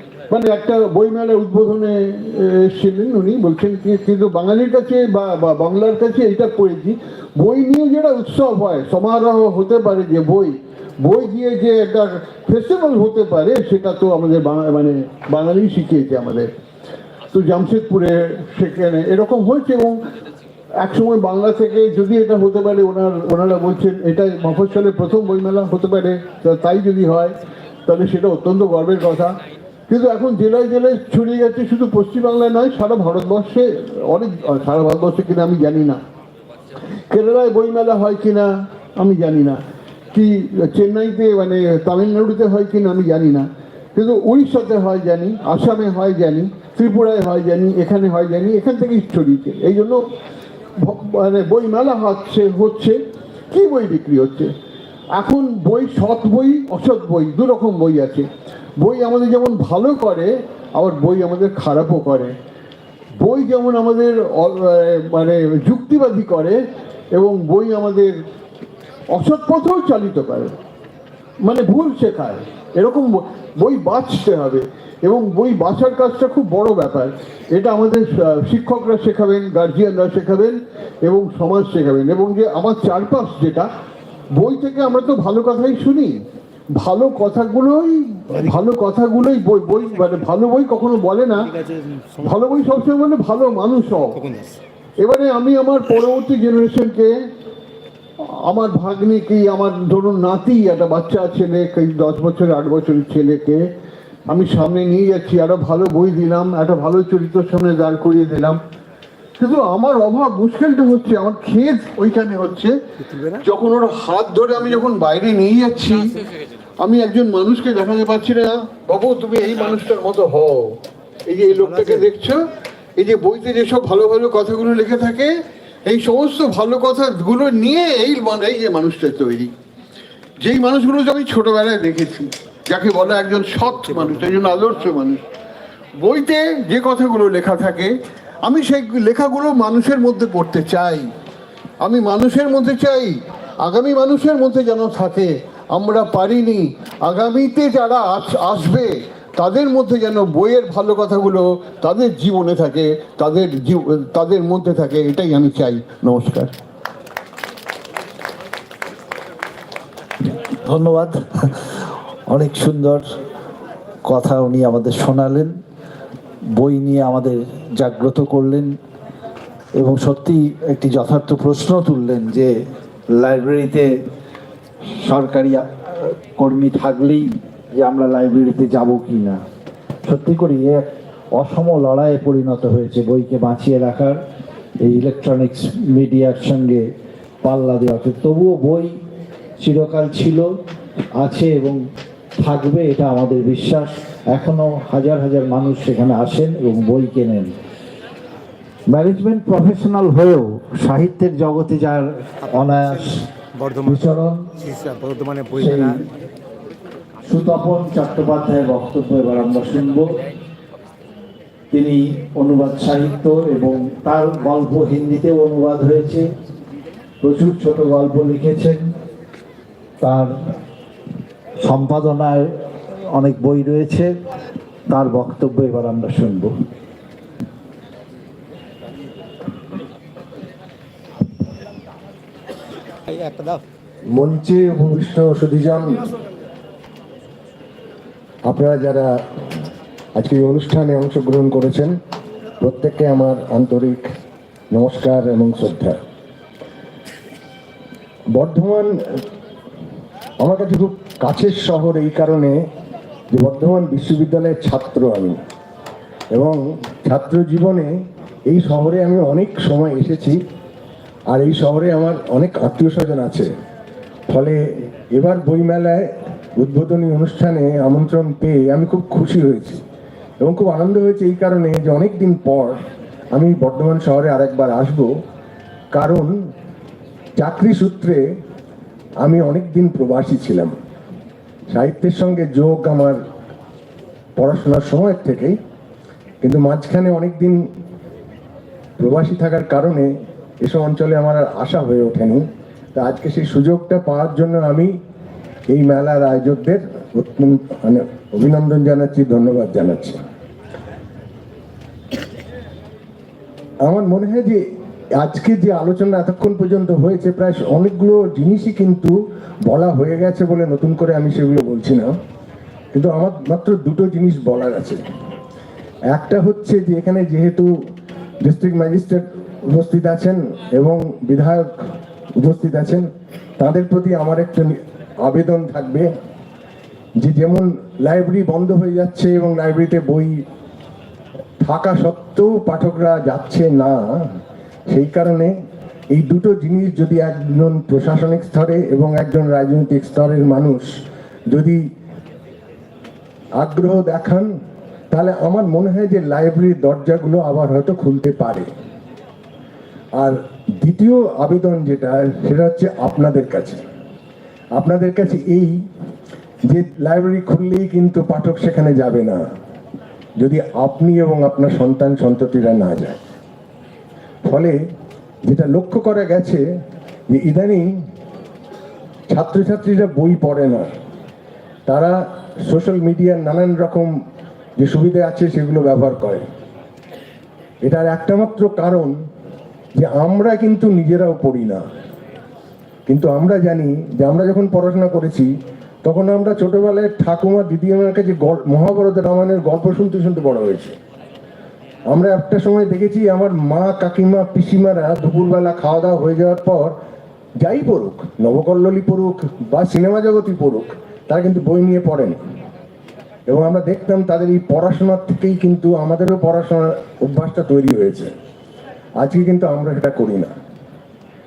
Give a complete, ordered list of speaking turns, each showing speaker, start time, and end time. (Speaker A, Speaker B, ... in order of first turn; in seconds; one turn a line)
Speaker A: 0.3-16.5
Speaker A: 17.3-20.0
Speaker A: 20.8-27.4
Speaker A: 27.9-36.0
Speaker A: 37.1-50.0
Speaker A: 50.8-53.0
Speaker A: 53.5-54.5
Speaker A: 55.1-58.3
Speaker A: 58.8-62.3
Speaker A: 63.2-66.6
Speaker A: 67.1-68.1
Speaker A: 69.1-70.6
Speaker A: 71.4-83.7
Speaker A: 84.4-86.2
Speaker A: 86.8-91.5
Speaker B: 91.5-92.2
Speaker A: 92.2-94.2
Speaker B: 94.2-94.6
Speaker A: 95.0-97.1
Speaker A: 98.4-103.6
Speaker A: 104.3-108.6
Speaker A: 109.4-112.7
Speaker B: 113.1-113.4
Speaker A: 113.4-116.2
Speaker A: 116.8-122.4
Speaker B: 121.6-122.1
Speaker A: 123.0-125.3
Speaker A: 125.9-129.5
Speaker A: 130.4-135.2
Speaker B: 134.0-134.7
Speaker A: 136.0-141.1
Speaker A: 141.8-156.5
Speaker C: 160.7-161.5
Speaker C: 162.3-163.1
Speaker C: 164.1-165.5
Speaker C: 166.6-168.8
Speaker C: 169.8-172.6
Speaker C: 173.1-173.9
Speaker C: 175.0-179.4
Speaker C: 180.0-184.2
Speaker C: 184.8-186.9
Speaker C: 187.4-188.9
Speaker C: 189.6-190.5
Speaker C: 191.2-191.8
Speaker C: 192.4-197.5
Speaker C: 198.9-203.3
Speaker B: 202.5-204.0
Speaker C: 203.8-204.5
Speaker B: 204.6-206.0
Speaker C: 205.6-206.0
Speaker C: 207.3-210.2
Speaker C: 211.7-216.3
Speaker C: 217.2-218.9
Speaker C: 220.0-220.3
Speaker C: 221.6-222.5
Speaker C: 223.1-224.1
Speaker C: 224.9-226.5
Speaker B: 233.1-233.6
Speaker D: 234.1-236.1
Speaker D: 238.4-239.1
Speaker D: 240.2-241.9
Speaker D: 242.6-244.1
Speaker D: 244.7-246.0
Speaker D: 248.3-248.9
Speaker D: 250.4-252.6
Speaker D: 253.3-255.4
Speaker D: 256.3-257.9
Speaker D: 258.5-260.4
Speaker D: 261.3-263.5
Speaker D: 264.3-269.8
Speaker D: 270.4-272.8
Speaker D: 273.3-275.1
Speaker D: 275.9-276.4
Speaker D: 277.4-278.2
Speaker D: 279.2-280.8
Speaker D: 281.7-283.2
Speaker D: 284.4-285.6
Speaker D: 286.4-287.6
Speaker D: 289.0-294.9
Speaker D: 295.7-300.2
Speaker D: 303.9-304.6
Speaker D: 305.2-309.1
Speaker D: 309.6-312.1
Speaker D: 312.9-315.0
Speaker D: 316.1-317.7
Speaker D: 318.4-321.7
Speaker D: 322.4-323.1
Speaker D: 323.6-326.1
Speaker D: 327.2-330.4
Speaker D: 331.6-334.2
Speaker D: 334.9-335.5
Speaker D: 336.1-340.9
Speaker D: 341.5-341.8
Speaker D: 343.6-344.5
Speaker D: 345.1-348.7
Speaker D: 350.2-353.8
Speaker D: 354.8-355.8
Speaker D: 356.7-359.4
Speaker D: 360.4-363.2
Speaker D: 364.4-364.8
Speaker D: 365.4-366.6
Speaker D: 367.3-367.9
Speaker D: 369.3-370.9
Speaker D: 371.9-374.1
Speaker D: 374.8-376.5
Speaker D: 377.8-379.1
Speaker D: 380.0-381.8
Speaker D: 383.1-385.5
Speaker D: 386.0-390.9
Speaker D: 392.1-397.0
Speaker D: 397.6-402.4
Speaker D: 403.5-408.3
Speaker D: 409.2-410.5